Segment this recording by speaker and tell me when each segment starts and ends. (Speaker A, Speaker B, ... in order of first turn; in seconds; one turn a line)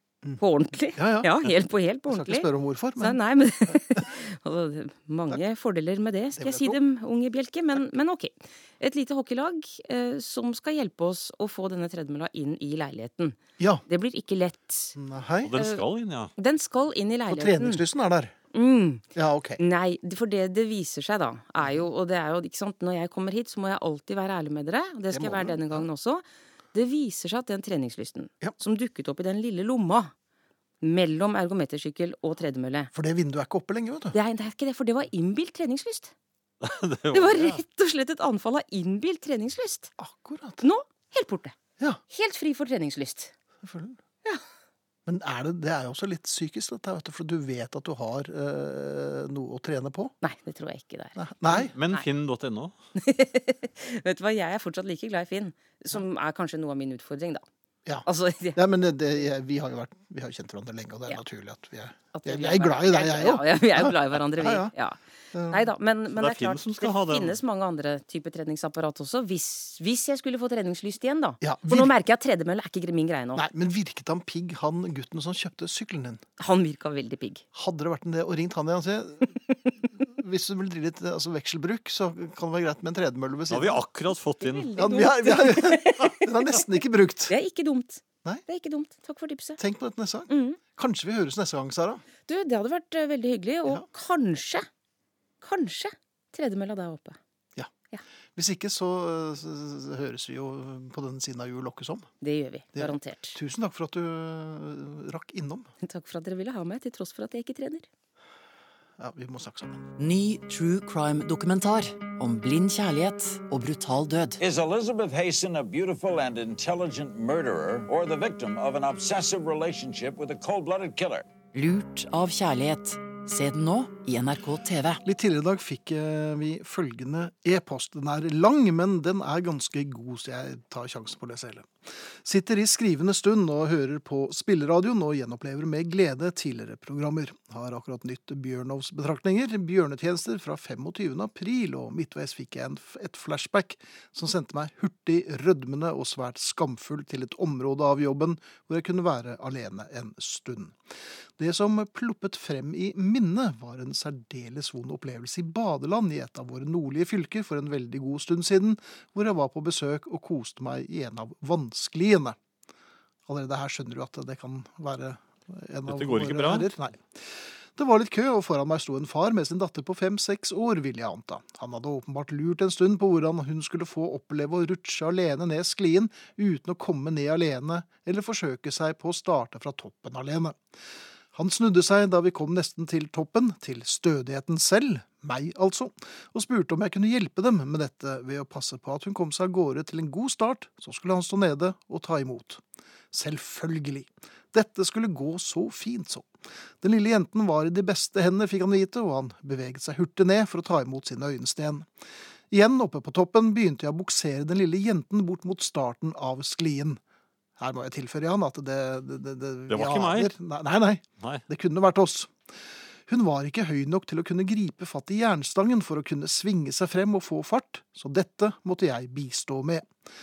Speaker A: 0.4-2.5
Speaker B: 1.0-1.3
Speaker B: 2.1-4.1
Speaker A: 3.0-15.0
Speaker B: 6.4-6.8
Speaker B: 14.9-15.6
Speaker C: 15.4-16.3
Speaker A: 15.6-15.8
Speaker A: 16.4-17.8
Speaker B: 17.3-18.3
Speaker A: 18.5-19.1
Speaker B: 19.1-19.6
Speaker A: 19.6-30.1
Speaker B: 25.1-25.9
Speaker A: 30.8-32.9
Speaker B: 32.9-34.1
Speaker A: 34.1-36.1
Speaker C: 36.6-37.6
Speaker A: 37.1-39.9
Speaker B: 40.0-40.6
Speaker A: 40.6-41.6
Speaker A: 42.1-43.3
Speaker B: 43.6-44.0
Speaker B: 45.1-50.1
Speaker A: 50.2-51.2
Speaker B: 51.2-51.7
Speaker C: 51.5-52.7
Speaker A: 53.0-57.5
Speaker B: 57.9-64.7
Speaker A: 58.0-58.6
Speaker A: 62.1-73.5
Speaker B: 65.3-65.7
Speaker C: 66.2-67.4
Speaker B: 71.4-71.9
Speaker B: 73.4-76.2
Speaker A: 76.4-77.4
Speaker B: 77.5-79.4
Speaker B: 80.0-83.8
Speaker C: 83.5-84.7
Speaker A: 84.4-86.7
Speaker B: 84.8-87.3
Speaker A: 87.3-89.6
Speaker B: 89.6-92.0
Speaker A: 90.3-90.6
Speaker A: 92.3-94.7
Speaker A: 95.4-97.2
Speaker B: 98.4-102.1
Speaker A: 102.2-103.4
Speaker B: 102.8-105.7
Speaker A: 105.8-107.9
Speaker B: 109.0-109.8
Speaker D: 110.0-114.4
Speaker E: 114.4-121.3
Speaker D: 121.5-125.0
Speaker B: 125.0-131.7
Speaker B: 132.2-150.8
Speaker B: 151.4-162.4
Speaker B: 163.3-180.6
Speaker C: 165.9-166.7
Speaker B: 181.3-196.3
Speaker B: 196.8-201.9
Speaker B: 202.5-207.0
Speaker B: 207.6-212.3
Speaker C: 209.7-210.3
Speaker B: 213.1-219.9